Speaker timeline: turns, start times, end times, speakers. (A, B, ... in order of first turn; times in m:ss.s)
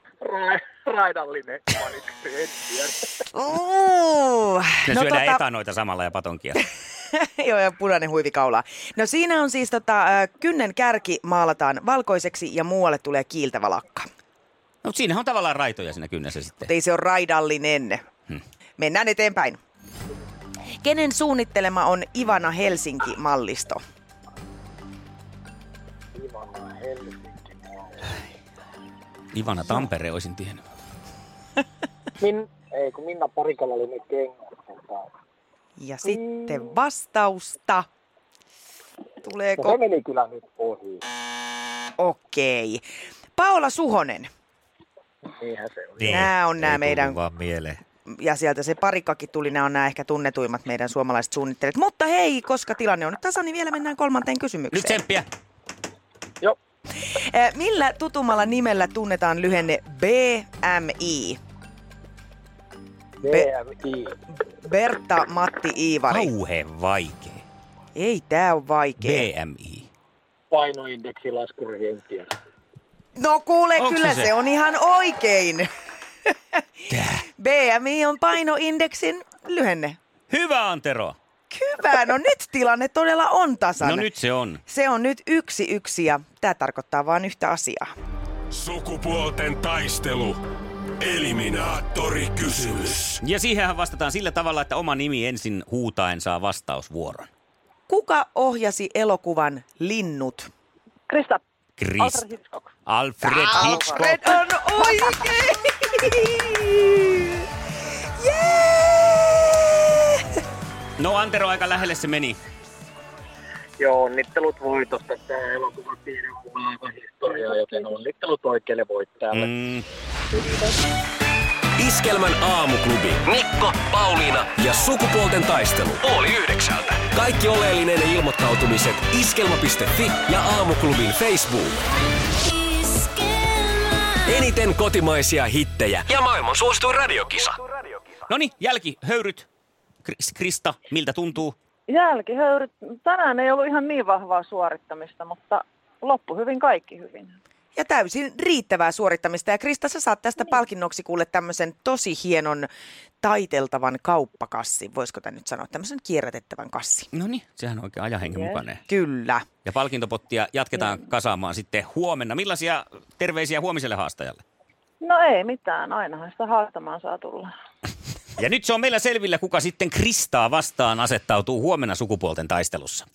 0:00.2-0:03.1 A
0:03.2-0:05.4 B
0:04.9-0:06.6 C
0:07.1-0:14.1 B
0:14.8-0:16.7 C
0:16.6-0:18.0 B
0:18.8-0:19.6 B
0:20.8-0:23.8 B
0:26.1-0:28.2 A
0:29.3-0:30.7 C
0:32.2-0:35.1 A
0:35.8-0:37.9 B
0:36.0-0:36.7 A
0:39.2-0:39.8 B
0:39.6-0:41.0 A
0:42.0-0:42.8 B
0:43.4-0:44.3 B
0:45.2-0:46.2 A
0:46.0-0:47.8 C
0:46.1-0:47.2 B
0:48.1-0:55.0 B
0:54.7-0:55.2 C
0:57.1-1:01.4 B
1:03.2-1:04.2 A
1:04.6-1:06.3 B
1:06.1-1:07.4 C
1:07.9-1:09.3 B
1:09.0-1:09.9 C
1:10.5-1:12.3 A
1:13.2-1:15.7 B
1:13.8-1:14.3 C
1:16.3-1:16.6 B
1:16.9-1:17.2 C
1:17.4-1:20.0 B
1:20.3-1:21.2 C
1:21.5-1:24.1 B
1:23.8-1:24.6 C
1:24.7-1:27.9 B
1:28.5-1:30.4 D
1:31.0-1:33.2 D
1:33.2-1:37.3 C
1:37.9-1:40.5 B
1:41.1-1:41.4 E
1:41.8-1:42.2 C
1:42.0-1:42.7 E
1:42.8-1:44.2 C
1:43.2-1:47.4 B
1:48.2-1:50.4 B
1:51.0-1:52.4 C
1:53.8-1:59.5 A
1:59.3-1:59.8 C
2:01.8-2:11.7 F
2:14.2-2:18.0 F
2:18.3-2:19.4 C
2:20.0-2:21.5 C
2:21.9-2:27.4 E
2:27.7-2:32.7 B
2:33.2-2:37.1 B
2:37.1-2:38.8 C
2:38.9-2:39.4 B
2:39.6-2:44.4 C
2:45.0-2:47.5 E
2:48.4-2:53.0 C